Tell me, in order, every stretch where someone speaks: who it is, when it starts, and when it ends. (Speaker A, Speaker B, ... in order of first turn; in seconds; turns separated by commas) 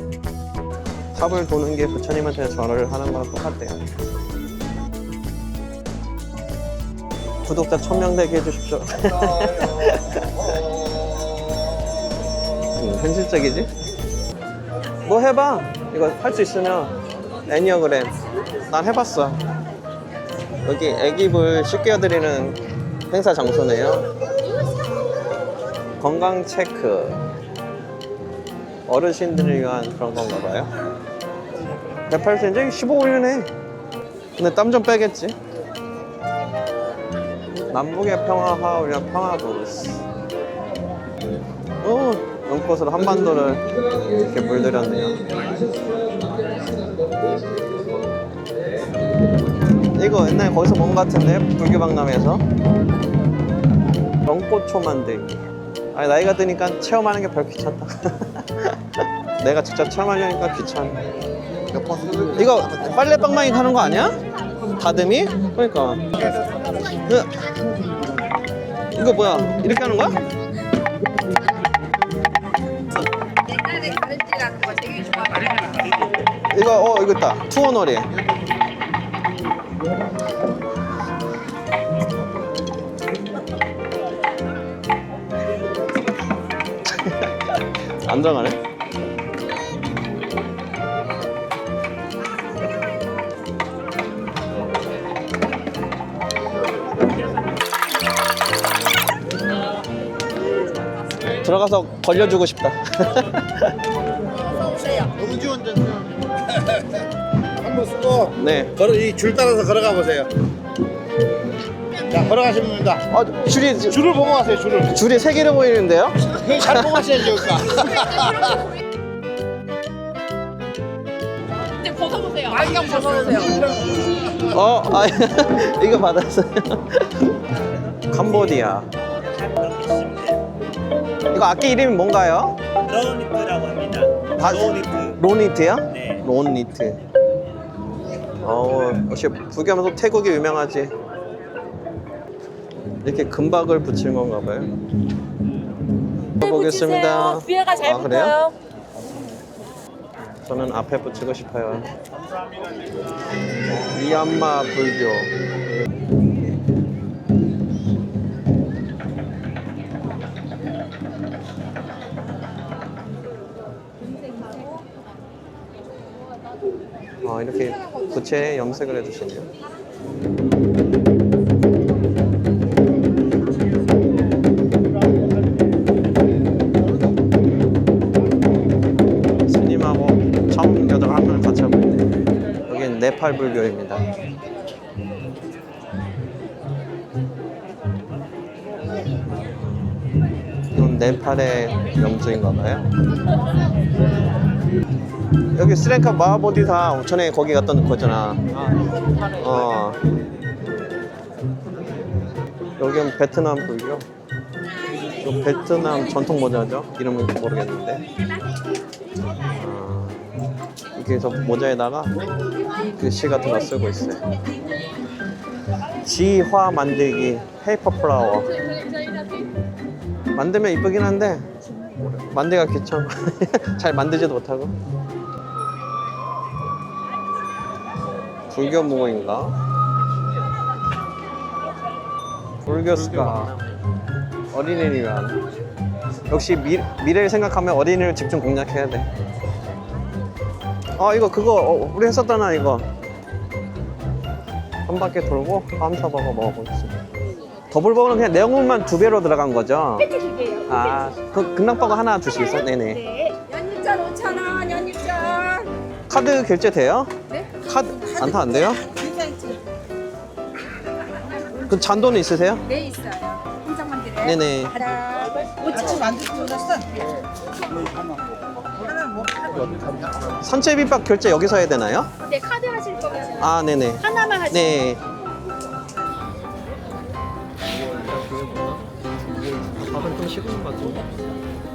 Speaker A: 1.1-3.9, Speaker A: 7.5-10.4, Speaker A: 12.7-13.7, Speaker A: 15.0-16.9, Speaker A: 17.5-18.1, Speaker A: 18.7-19.4, Speaker A: 20.6-22.6, Speaker A: 23.1-24.1, Speaker A: 26.0-27.2, Speaker A: 28.9-30.7, Speaker A: 32.1-33.5, Speaker A: 34.4-35.4, Speaker A: 37.5-40.0, Speaker A: 41.8-45.4, Speaker A: 49.9-52.4, Speaker A: 54.2-61.0, Speaker B: 61.7-62.2, Speaker A: 62.1-64.2, Speaker A: 64.7-66.3, Speaker A: 67.0-67.4, Speaker A: 68.9-70.2, Speaker C: 73.2-76.0, Speaker A: 76.5-78.1, Speaker A: 86.8-88.6, Speaker A: 101.3-103.8, Speaker B: 104.5-107.0, Speaker B: 107.6-110.3, Speaker A: 108.3-108.8, Speaker B: 112.0-113.0, Speaker A: 113.1-114.2, Speaker B: 114.0-114.9, Speaker A: 114.8-117.4, Speaker B: 116.3-118.6, Speaker C: 121.7-123.7, Speaker B: 122.9-124.3, Speaker A: 124.3-127.2, Speaker A: 128.1-128.9, Speaker D: 129.3-130.4, Speaker A: 131.3-132.6, Speaker D: 132.8-135.2, Speaker A: 134.4-137.0, Speaker D: 135.9-136.2, Speaker A: 138.4-140.9, Speaker A: 143.0-144.7, Speaker A: 146.4-148.4, Speaker C: 146.4-148.6, Speaker A: 150.4-151.9, Speaker A: 153.7-155.3, Speaker A: 167.2-169.5, Speaker A: 179.5-182.1, Speaker A: 182.7-184.1, Speaker A: 189.3-189.9, Speaker A: 190.7-192.9, Speaker A: 195.5-198.6, Speaker A: 199.4-200.0, Speaker A: 202.8-204.1, Speaker A: 205.2-208.1, Speaker A: 209.5-210.3, Speaker A: 210.9-212.3, Speaker A: 212.8-214.2, Speaker A: 215.9-218.8, Speaker C: 218.8-219.4, Speaker A: 220.3-221.5, Speaker A: 222.2-224.7, Speaker A: 228.5-229.6, Speaker A: 232.6-233.6, Speaker A: 234.5-235.4, Speaker A: 236.3-239.1, Speaker A: 240.9-242.9, Speaker A: 244.9-246.9, Speaker A: 247.7-250.1, Speaker C: 250.0-251.1, Speaker A: 250.7-253.0, Speaker C: 252.6-255.8, Speaker A: 256.1-257.1, Speaker C: 257.3-259.6, Speaker A: 257.6-258.9, Speaker C: 261.4-261.6, Speaker A: 261.7-262.6, Speaker C: 262.6-267.2, Speaker A: 264.2-264.8, Speaker C: 268.8-270.0, Speaker A: 270.4-272.1, Speaker C: 272.2-274.9, Speaker A: 273.4-275.0, Speaker A: 277.7-281.1